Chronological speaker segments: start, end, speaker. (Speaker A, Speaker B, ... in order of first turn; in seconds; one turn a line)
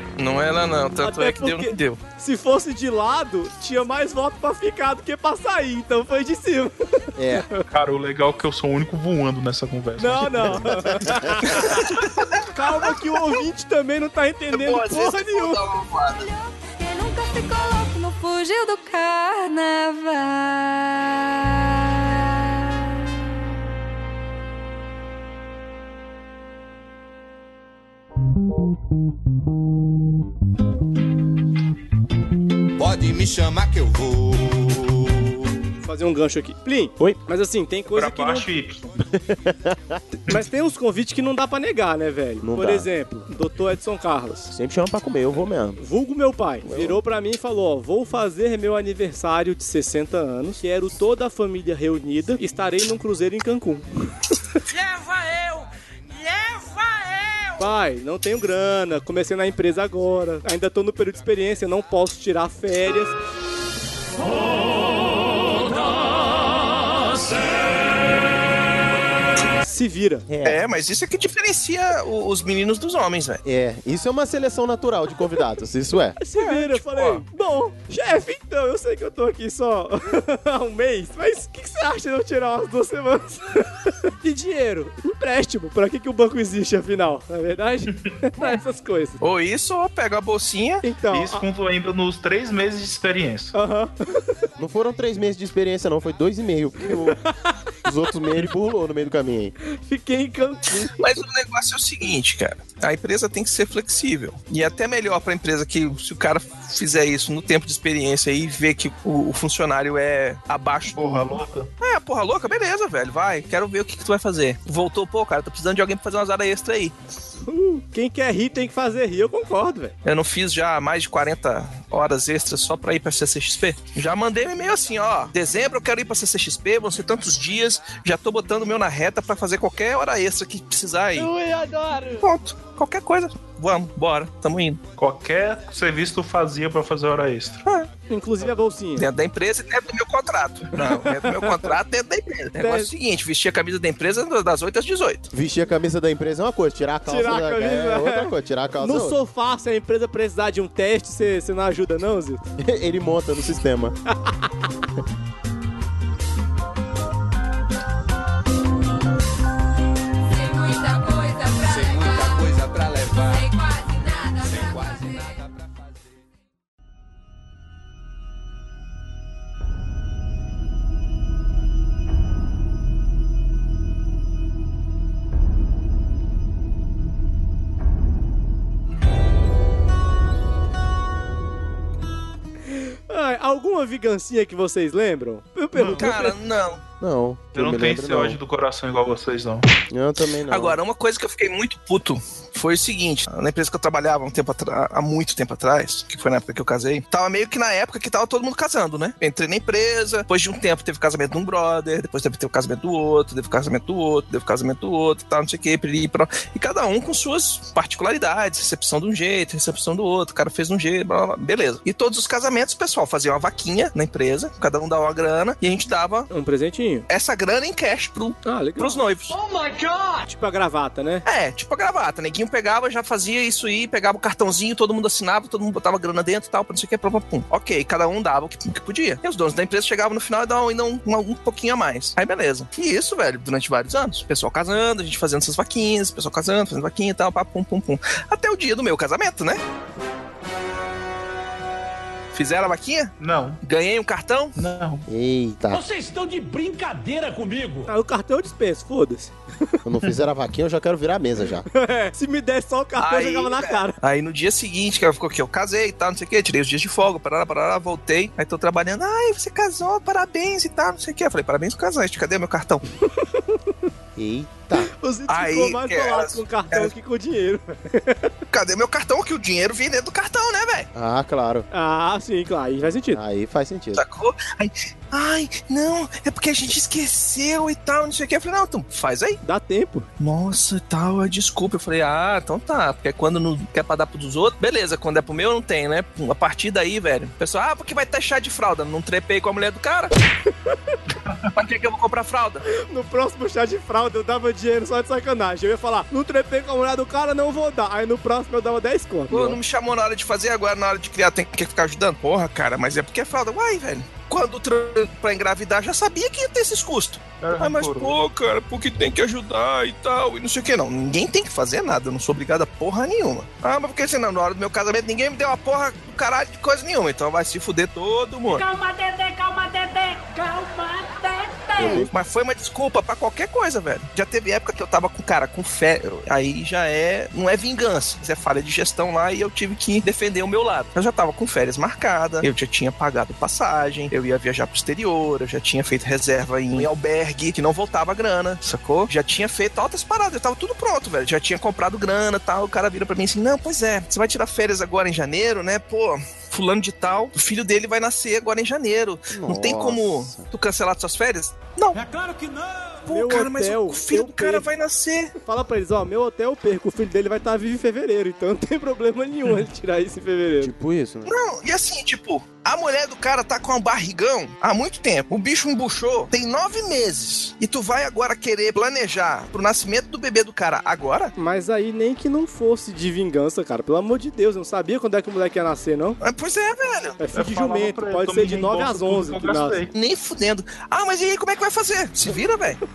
Speaker A: 0.2-2.0
Speaker B: 1.0-7.6
Speaker C: 7.2-7.5
Speaker D: 7.7-10.7
Speaker B: 10.0-11.9
Speaker C: 10.4-11.5
Speaker A: 11.9-12.9
Speaker B: 12.5-15.6
Speaker A: 14.5-16.3
Speaker E: 16.2-23.0
Speaker F: 32.8-34.8
Speaker B: 35.8-38.5
Speaker D: 37.9-38.8
Speaker C: 39.1-40.0
Speaker B: 40.3-44.5
Speaker C: 42.4-42.9
Speaker C: 44.5-45.8
Speaker B: 45.8-53.9
Speaker C: 46.6-47.0
Speaker B: 57.6-63.1
Speaker B: 69.6-70.3
Speaker C: 70.3-70.6
Speaker A: 70.5-73.4
Speaker C: 73.4-76.2
Speaker B: 76.2-89.2
Speaker A: 76.4-77.2
Speaker A: 89.2-90.8
Speaker B: 90.8-91.4
Speaker D: 91.1-93.5
Speaker B: 93.5-94.3
Speaker C: 94.6-97.2
Speaker B: 97.1-97.6
Speaker C: 97.8-99.5
Speaker B: 99.7-100.9
Speaker A: 101.0-111.0
Speaker D: 110.9-111.7
Speaker A: 111.8-116.9
Speaker B: 117.4-120.0
Speaker A: 120.0-131.3
Speaker B: 131.2-132.2
Speaker A: 132.2-134.8
Speaker D: 135.0-137.6
Speaker A: 137.7-137.9
Speaker B: 138.1-139.1
Speaker A: 139.0-145.3
Speaker B: 141.1-141.7
Speaker B: 142.6-142.9
Speaker C: 145.3-149.2
Speaker B: 147.1-152.4
Speaker C: 152.6-153.9
Speaker B: 154.2-154.5
Speaker E: 160.3-162.6
Speaker F: 161.9-163.2
Speaker E: 163.2-165.4
Speaker B: 182.7-186.3
Speaker D: 185.8-186.1
Speaker A: 186.0-186.8
Speaker C: 187.0-188.4
Speaker D: 187.6-189.7
Speaker C: 189.9-190.8
Speaker A: 190.5-216.3
Speaker B: 216.3-217.1
Speaker A: 217.1-219.4
Speaker B: 218.4-219.0
Speaker F: 219.3-220.2
Speaker B: 220.2-221.2
Speaker A: 221.2-239.6
Speaker A: 242.3-244.5
Speaker D: 243.2-243.6
Speaker D: 244.6-245.1
Speaker C: 245.1-245.8
Speaker G: 245.7-247.9
Speaker B: 247.9-249.3
Speaker C: 249.8-251.7
Speaker B: 251.7-254.0
Speaker A: 253.0-262.8
Speaker B: 263.2-263.6
Speaker C: 264.2-264.9
Speaker B: 264.8-268.4
Speaker A: 265.3-266.9
Speaker A: 268.5-270.9
Speaker C: 270.9-271.6
Speaker B: 271.7-273.2
Speaker C: 273.1-274.0
Speaker A: 273.9-279.4
Speaker B: 279.4-280.1
Speaker A: 280.2-290.1
Speaker B: 290.7-290.9
Speaker D: 291.2-291.5
Speaker A: 291.6-292.6
Speaker B: 292.7-299.6
Speaker A: 299.3-318.7
Speaker D: 307.4-308.2
Speaker E: 318.5-322.1
Speaker C: 321.8-322.1
Speaker A: 321.8-352.0
Speaker C: 349.3-350.5
Speaker G: 351.9-353.0
Speaker A: 353.1-355.3
Speaker B: 353.1-354.6
Speaker B: 355.4-360.7
Speaker C: 360.6-361.4
Speaker A: 361.3-371.3
Speaker B: 371.4-376.2
Speaker A: 376.2-377.2
Speaker B: 377.2-379.8
Speaker D: 377.4-379.9
Speaker A: 379.9-382.8